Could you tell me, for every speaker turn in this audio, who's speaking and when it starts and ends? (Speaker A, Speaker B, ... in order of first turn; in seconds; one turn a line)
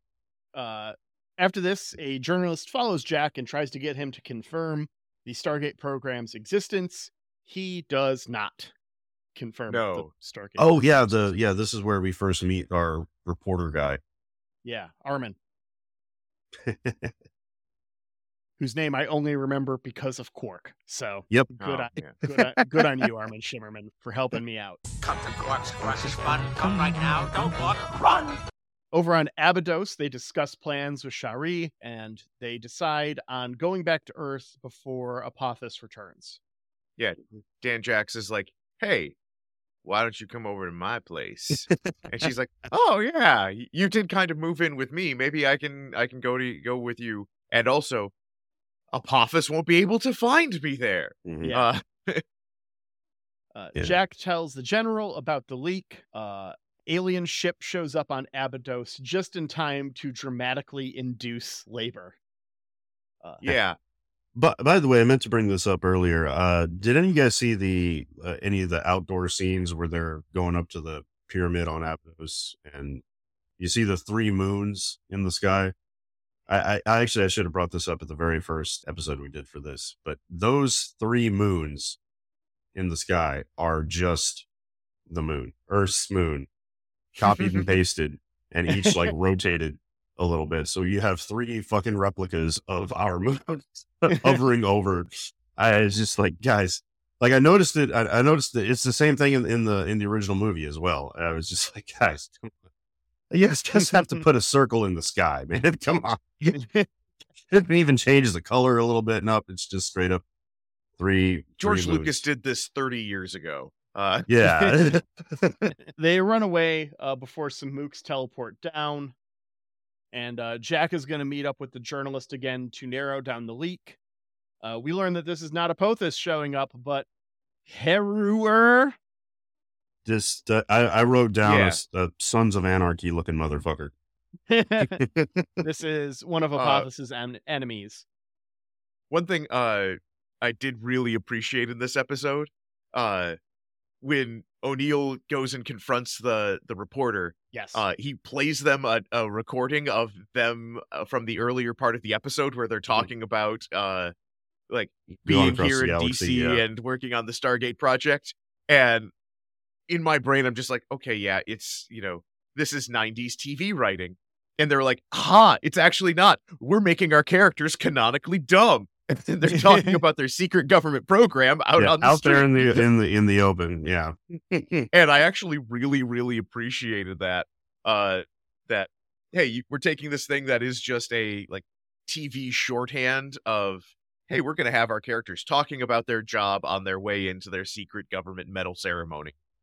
Speaker A: 0.5-8.7
Speaker A: 9.3-11.3
Speaker B: 9.7-10.1
Speaker C: 10.6-14.0
Speaker A: 14.6-15.4
Speaker C: 16.6-17.1
Speaker A: 18.6-24.8
Speaker B: 21.6-22.1
Speaker C: 22.2-22.8
Speaker D: 25.0-28.4
Speaker A: 28.9-36.4
Speaker B: 37.0-39.1
Speaker B: 39.8-48.1
Speaker C: 41.5-42.3
Speaker B: 48.9-52.2
Speaker C: 51.2-51.5
Speaker A: 51.4-51.7
Speaker A: 53.5-62.2
Speaker A: 63.2-63.5
Speaker B: 63.4-63.8
Speaker C: 64.3-73.0
Speaker C: 73.6-75.7
Speaker C: 76.5-82.0
Speaker C: 82.7-84.5
Speaker C: 85.1-86.5
Speaker C: 87.2-102.6
Speaker B: 87.4-87.6
Speaker A: 88.8-89.1
Speaker C: 103.3-106.6
Speaker A: 106.5-106.8
Speaker C: 107.5-110.2
Speaker C: 111.0-112.2
Speaker B: 111.6-114.3
Speaker C: 114.3-115.7
Speaker A: 116.0-119.1
Speaker A: 120.1-124.0
Speaker A: 124.6-127.1
Speaker A: 127.7-128.9
Speaker C: 130.0-133.9
Speaker B: 131.4-131.8
Speaker A: 134.5-135.0
Speaker C: 134.8-135.6
Speaker A: 135.6-138.0
Speaker B: 136.6-136.9
Speaker B: 139.1-143.4
Speaker B: 144.0-154.1
Speaker A: 147.5-147.8
Speaker B: 154.7-159.1
Speaker C: 155.1-156.6
Speaker B: 159.9-172.8
Speaker C: 171.8-174.9
Speaker B: 174.9-189.3